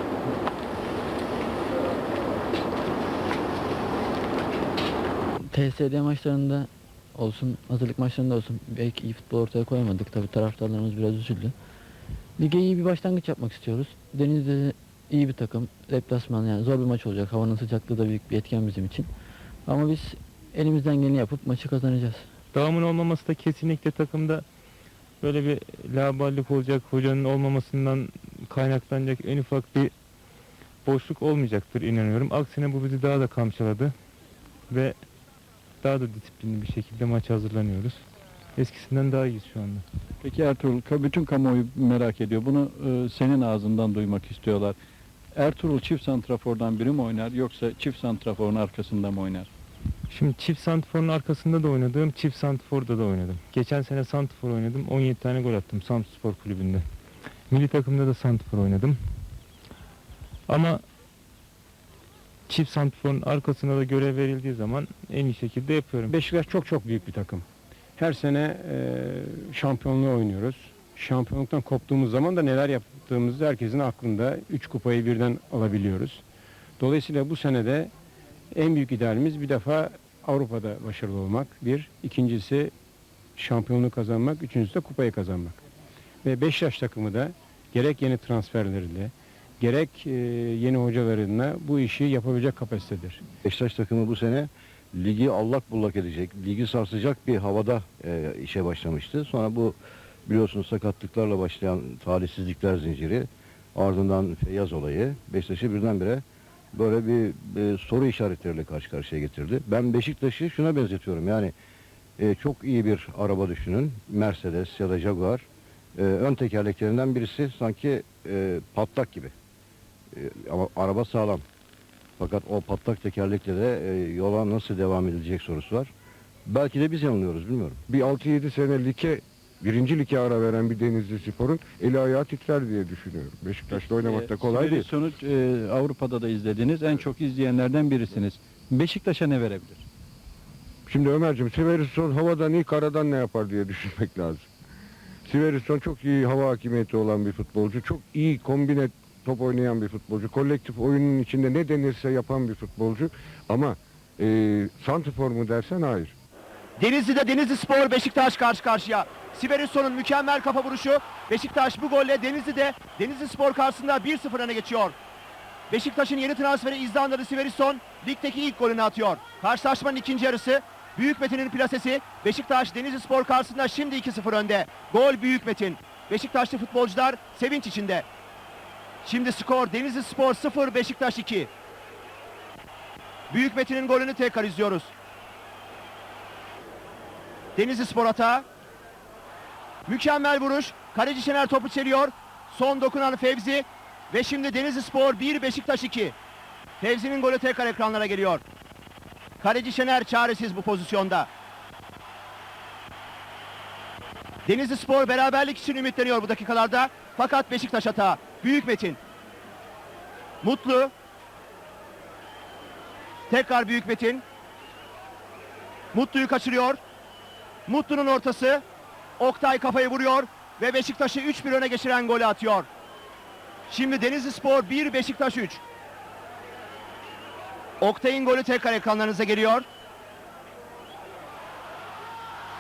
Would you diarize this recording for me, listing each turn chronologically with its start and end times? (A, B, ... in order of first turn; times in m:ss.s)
0:05.5-0:11.6 A
0:12.4-0:19.1 A
0:19.7-0:22.3 A
0:22.5-0:24.4 B
0:25.2-0:29.9 B
0:30.8-0:33.9 B
0:34.7-0:35.0 B
0:35.8-0:38.0 B
0:38.6-0:39.8 B
0:40.2-0:44.8 C
0:45.4-0:49.5 C
0:50.1-0:56.8 B
0:57.5-0:59.0 B
1:00.5-1:00.8 B
1:02.5-1:06.1 B
1:06.1-1:07.4 D
1:08.0-1:16.2 D
1:16.8-1:17.9 D
1:18.5-1:22.7 D
1:23.4-1:25.6 D
1:26.2-1:33.2 D
1:33.4-1:46.2 E
1:46.7-1:51.5 E
1:52.2-1:59.3 E
2:00.1-2:01.4 E
2:02.2-2:05.9 E
2:06.5-2:07.8 E
2:07.9-2:14.9 F
2:13.7-2:19.8 C
2:20.9-2:24.5 F
2:25.3-2:36.1 F
2:36.8-2:45.0 G
2:45.7-2:58.1 G
2:59.0-3:01.5 G
3:03.3-3:04.9 G
3:07.6-3:08.4 G
3:09.9-3:16.2 G
3:16.8-3:18.4 G
3:19.4-3:21.3 G
3:24.5-3:29.0 G
3:30.4-3:30.9 G
3:33.3-3:34.2 G
3:35.9-3:36.8 G
3:37.7-3:38.6 G
3:39.2-3:42.7 G
3:43.7-3:45.6 G
3:47.8-3:49.6 G